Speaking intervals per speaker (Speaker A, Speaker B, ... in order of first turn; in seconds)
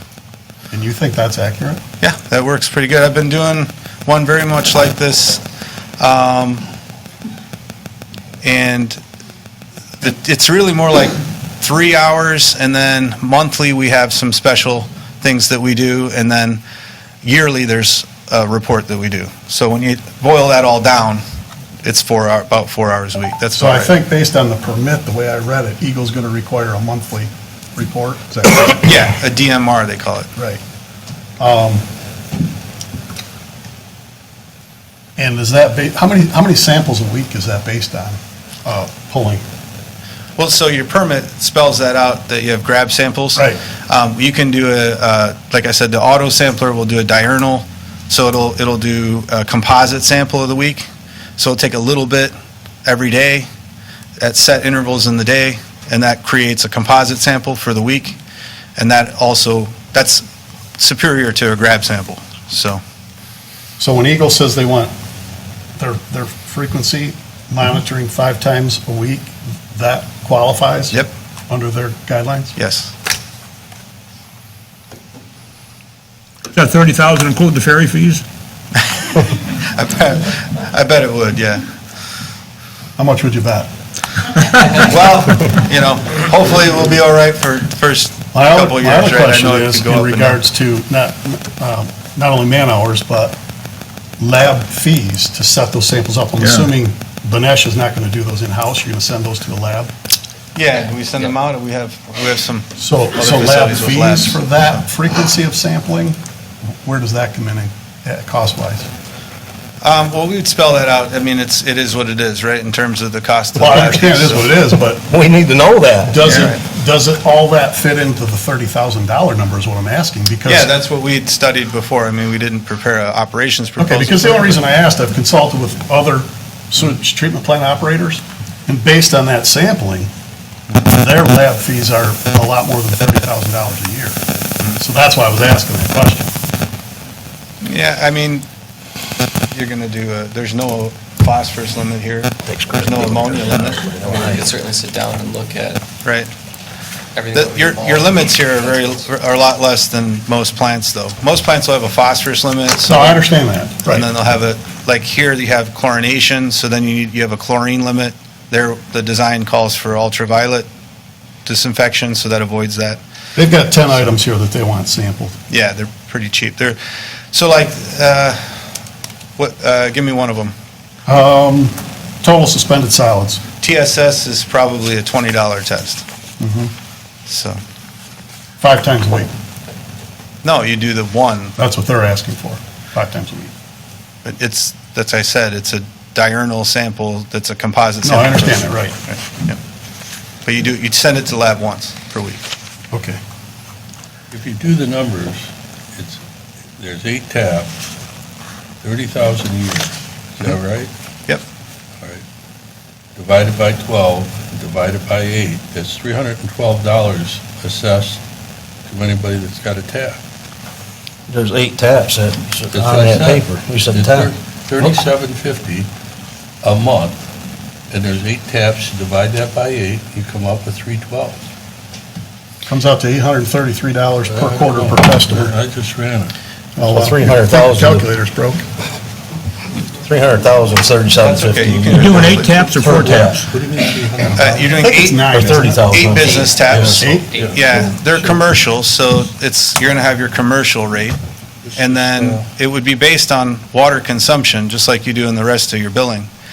Speaker A: 0.7-1.8, 23.6-28.9, 30.4-30.6, 31.4-31.9, 35.2-39.4, 63.8-64.9, 65.8-72.6, 83.0-83.7, 88.3-93.4, 94.2-99.9, 102.8-106.2, 106.8-108.9, 113.5-115.0, 116.1-120.7, 123.8-130.1, 130.8-136.3, 152.9-154.1, 163.4-165.3, 171.1-173.4, 176.4-176.7, 178.6-179.3, 181.6-183.5, 188.0-188.9, 192.9-193.2, 222.7-225.6, 226.8-228.7, 234.2-236.0, 236.9-237.3
Speaker B: 2.0-5.4, 6.0-6.6, 8.4-9.0, 10.0-16.6, 17.2-21.2, 21.8-23.9, 28.8-30.3, 40.4-50.9, 51.4-52.3, 52.9-53.5, 54.2-58.2, 58.8-60.2, 60.8-62.8, 72.6-72.9, 79.0-81.7, 84.7-90.4, 100.5-104.4, 109.8-114.5, 120.5-124.6, 137.6-138.4, 139.5-144.3, 146.0-146.3, 147.3-153.3, 153.9-160.7, 161.5-163.0, 165.5-166.8, 167.3-168.4, 169.4-170.5, 173.6-176.0, 177.3-177.6, 180.4-181.6, 184.2-189.6, 190.4-192.4, 231.2-232.6, 234.3-241.2, 241.8-246.3
Speaker C: 76.5-78.2, 231.9-233.5
Speaker D: 115.1-116.3, 142.5-144.5, 211.3-215.0, 226.8-228.1, 230.0-233.4, 235.3-236.4
Speaker E: 144.0-145.8, 147.2-148.2
Speaker F: 194.3-196.2, 196.8-197.8, 198.8-200.9, 203.2-208.2, 208.9-210.2, 212.7-215.9, 216.6-217.2, 217.9-221.4, 224.2-226.3, 232.8-234.8, 236.6-238.4, 241.6-242.5